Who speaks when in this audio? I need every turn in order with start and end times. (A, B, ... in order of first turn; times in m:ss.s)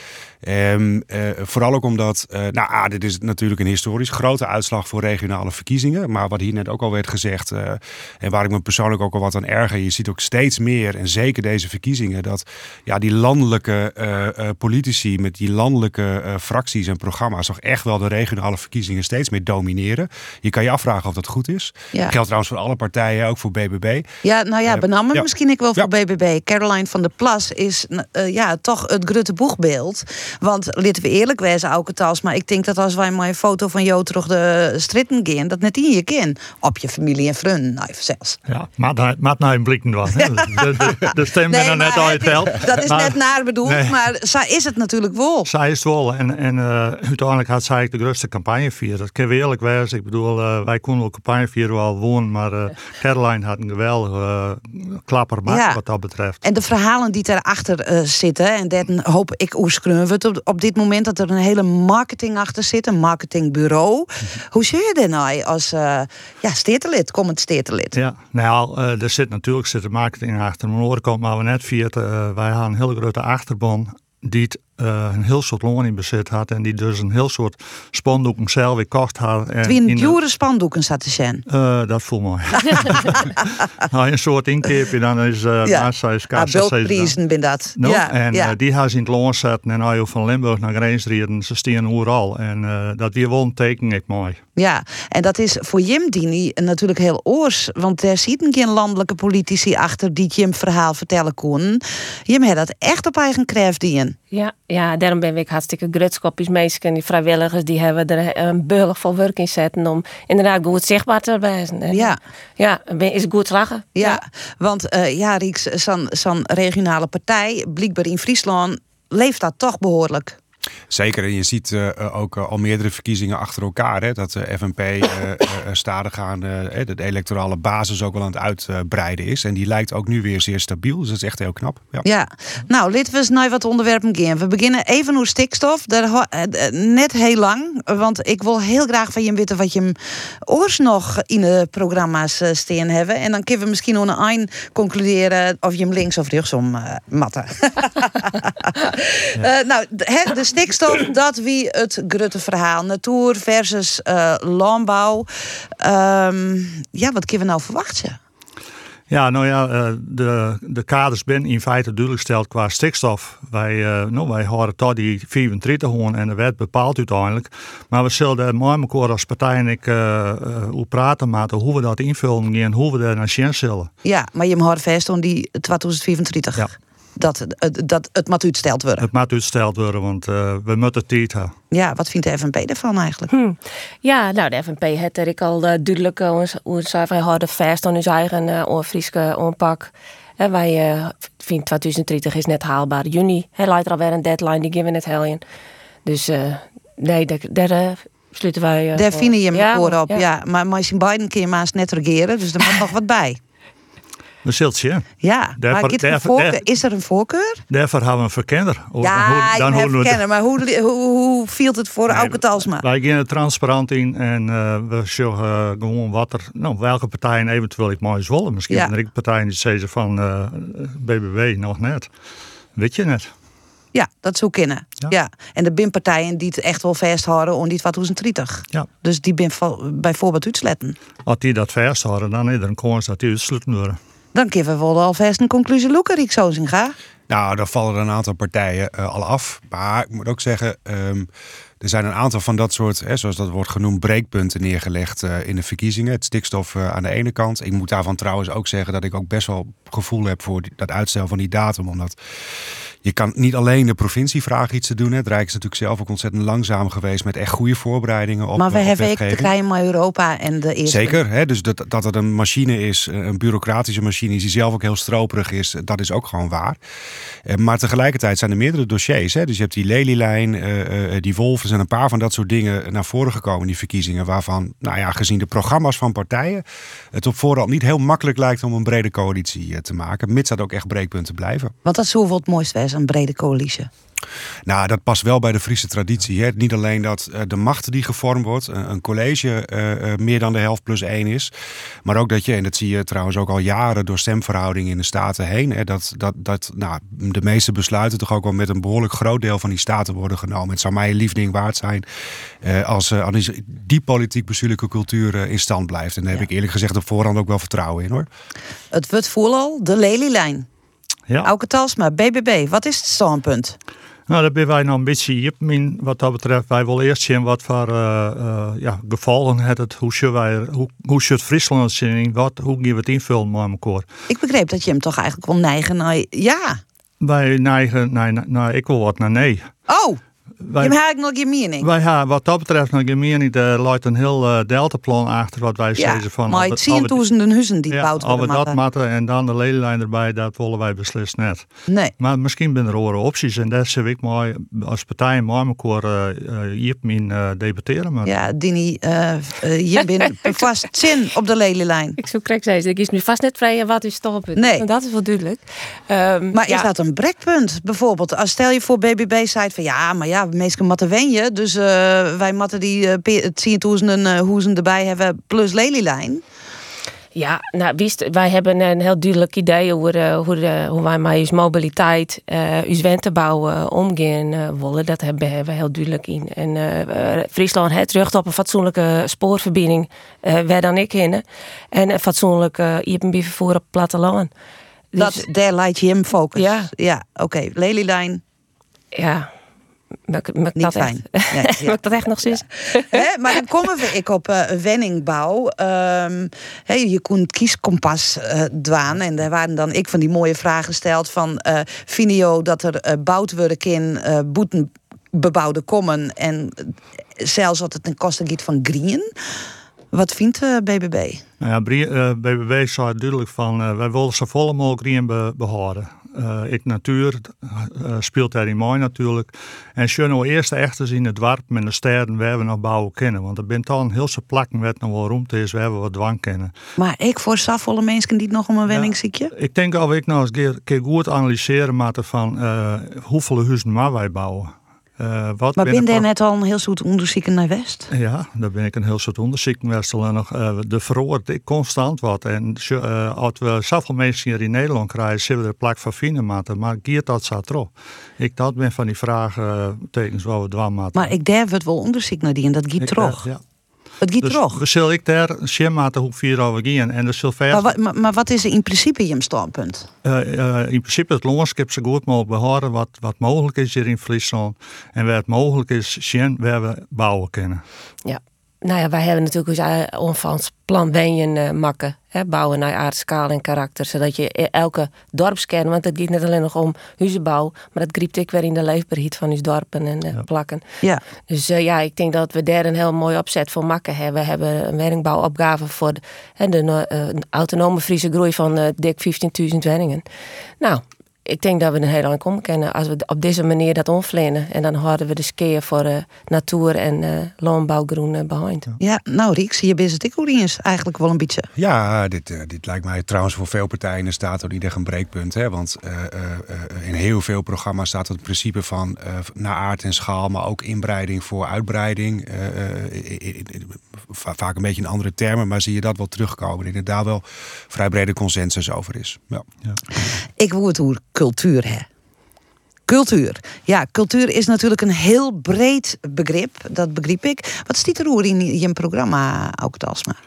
0:00.4-0:24.1 A
0:24.2-0:38.4 B
0:24.7-0:25.2 A
0:38.5-0:43.9 C
0:40.4-0:40.9 B
0:41.5-0:45.5 B
0:45.4-0:56.4 C
0:55.5-0:55.8 B
0:56.4-1:08.0 B
1:07.9-1:20.2 C
1:19.6-1:21.4 B
1:21.5-1:27.1 C
1:22.7-1:23.0 B
1:25.6-1:28.5 B
1:27.8-1:34.4 C
1:34.6-1:44.2 B
1:44.3-1:54.2 D
1:51.9-1:52.2 B
1:54.0-2:00.4 B
2:00.9-2:12.0 A
2:12.0-2:20.0 B
2:20.5-2:35.3 B
2:35.8-2:38.2 B
2:39.1-2:53.9 C
2:54.0-2:59.1 B
2:59.0-3:01.5 C
3:01.7-3:03.3 B
3:03.3-3:15.4 D
3:16.0-3:20.2 D
3:19.0-3:23.4 B
3:24.4-3:26.6 C
3:25.2-3:27.6 B
3:27.7-3:30.2 C
3:29.0-3:32.8 B
3:32.1-3:42.1 C
3:42.7-3:43.3 C
3:43.9-3:51.0 B
3:51.2-3:54.0 C
3:54.3-3:56.9 B
3:57.3-4:01.3 A
4:01.8-4:12.2 A
4:13.0-4:19.5 A
4:18.6-4:21.2 B
4:20.8-4:26.8 A
4:27.4-4:41.7 A
4:41.8-4:43.9 B
4:44.6-4:51.5 A
4:52.0-5:02.0 A
5:02.6-5:08.3 A
5:08.9-5:10.7 B
5:11.4-5:13.8 B
5:14.3-5:24.1 C
5:24.3-5:26.8 B
5:27.2-5:29.7 C
5:29.9-5:30.2 B
5:30.6-5:31.0 C
5:30.8-5:31.9 B
5:31.8-5:37.2 C
5:36.0-5:38.8 B
5:37.9-5:41.6 C
5:41.9-5:42.1 B
5:42.2-5:48.3 C
5:48.2-5:52.2 B
5:52.2-5:56.9 D
5:54.6-5:54.8 B
5:56.5-6:06.4 B
6:07.3-6:24.5 D
6:25.1-6:25.4 D
6:25.2-6:28.4 B
6:26.5-6:26.9 D
6:29.1-6:29.5 D
6:30.3-6:33.2 D
6:30.8-6:49.3 B
6:50.1-6:51.4 B
6:51.6-7:06.7 C
7:07.0-7:09.5 B
7:08.9-7:16.2 C
7:15.8-7:18.1 B
7:18.1-7:31.3 C
7:31.1-7:33.4 B
7:33.0-7:33.6 C
7:34.2-7:34.8 B
7:34.4-7:37.9 C
7:37.7-7:40.1 B
7:40.2-7:47.8 C
7:48.2-8:00.8 D
8:01.5-8:10.2 D
8:10.8-8:18.9 D
8:19.0-8:21.7 B
8:21.8-8:39.6 A
8:40.6-8:42.1 B
8:43.1-8:50.4 B